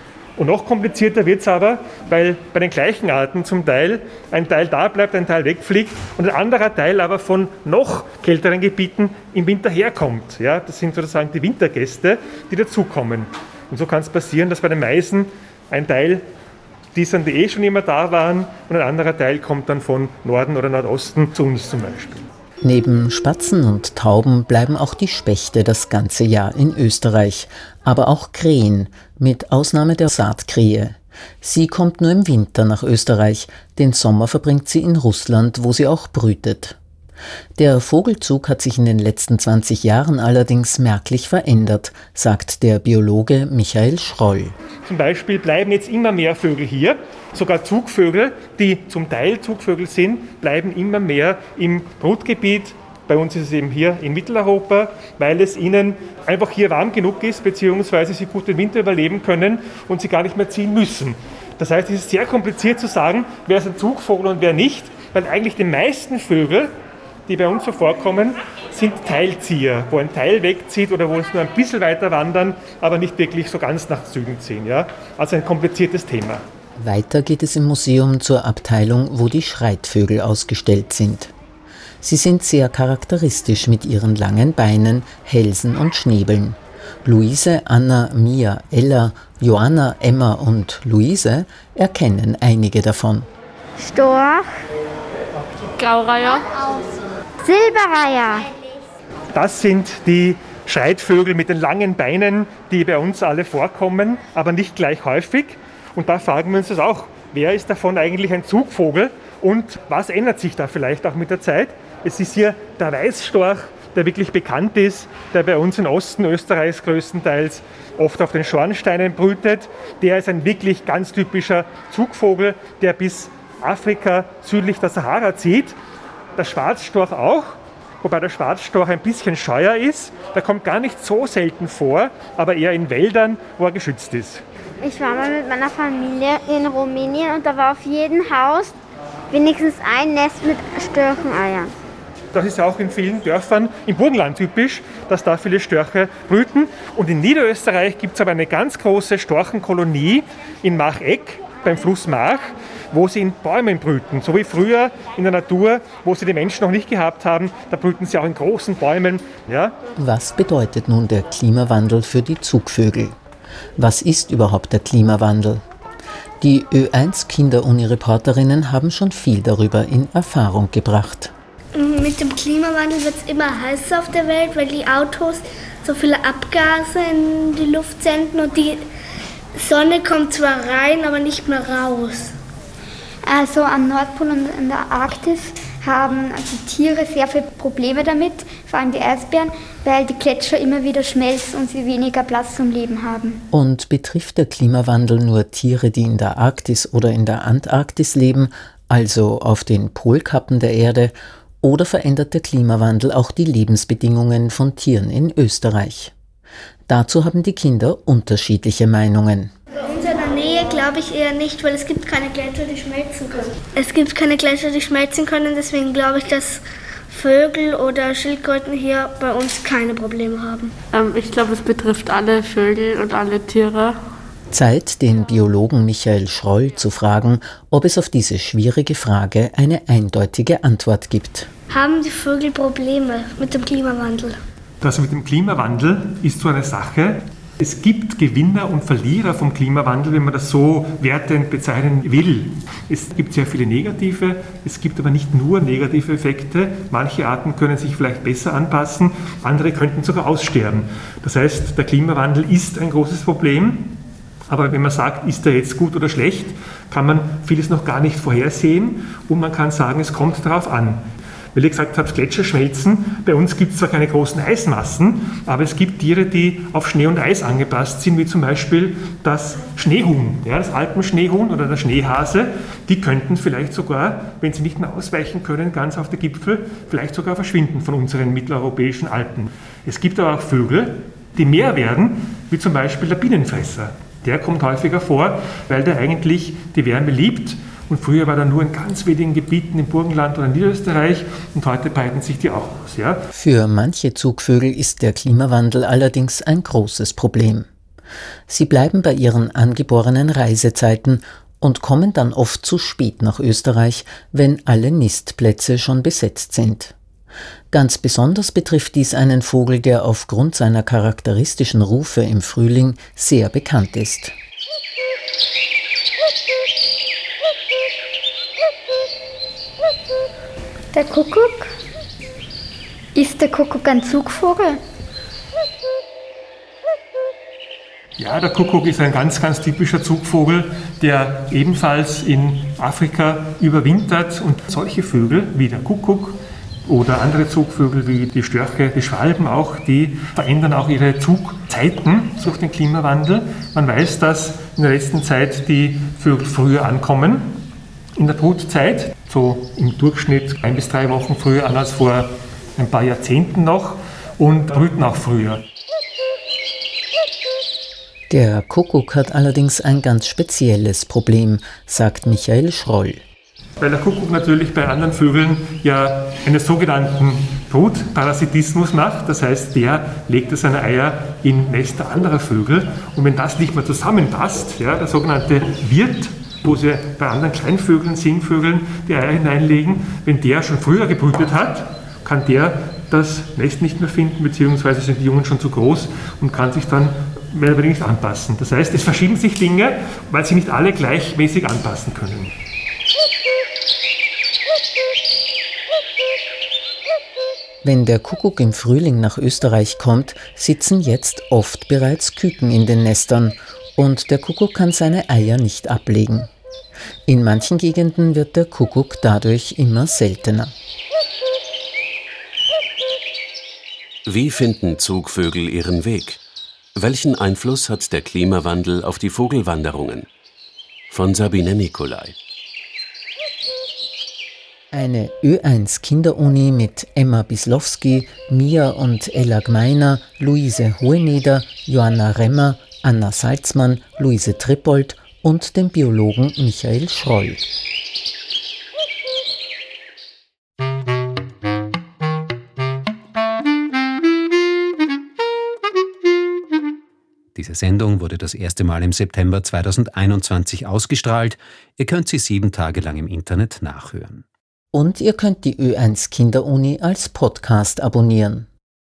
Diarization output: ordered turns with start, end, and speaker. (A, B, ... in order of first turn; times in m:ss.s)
0:00.4-0:16.2 A
0:16.9-0:22.3 A
0:22.6-0:36.8 B
0:37.6-0:44.5 B
0:44.8-1:06.7 A
1:07.3-1:16.4 A
1:16.8-1:21.3 B
1:22.0-1:33.3 B
1:35.7-1:36.7 C
1:37.5-1:38.4 D
1:39.3-2:05.8 A
2:06.4-2:14.4 A
2:14.9-2:18.7 D
2:19.3-2:21.7 D
2:22.3-2:39.8 A
2:40.0-2:43.1 B
2:43.8-2:45.6 B
2:46.4-2:51.3 B
2:51.7-2:58.8 E
2:59.5-3:02.3 E
3:03.2-3:13.4 F
3:13.5-3:26.1 B
3:26.9-3:29.5 B
3:29.8-3:40.7 E
3:40.9-3:43.9 C
3:44.5-3:51.5 B
3:51.7-3:54.4 E
3:54.8-4:13.9 A
4:14.5-4:21.0 A
4:21.5-4:53.2 A
4:53.3-4:57.6 B
4:58.5-5:06.9 B
5:07.7-5:14.3 B
5:20.9-5:21.7 F
5:23.1-5:24.8 F
5:28.2-5:47.6 A
5:48.2-5:55.6 A
5:58.3-6:03.2 B
6:03.8-6:32.5 A
6:37.8-6:46.5 B
6:47.3-6:50.7 B
6:54.2-6:56.4 G
6:57.0-7:00.3 G
7:01.1-7:02.4 G
7:04.9-7:17.7 B
7:27.5-7:34.4 H
7:34.9-7:38.7 B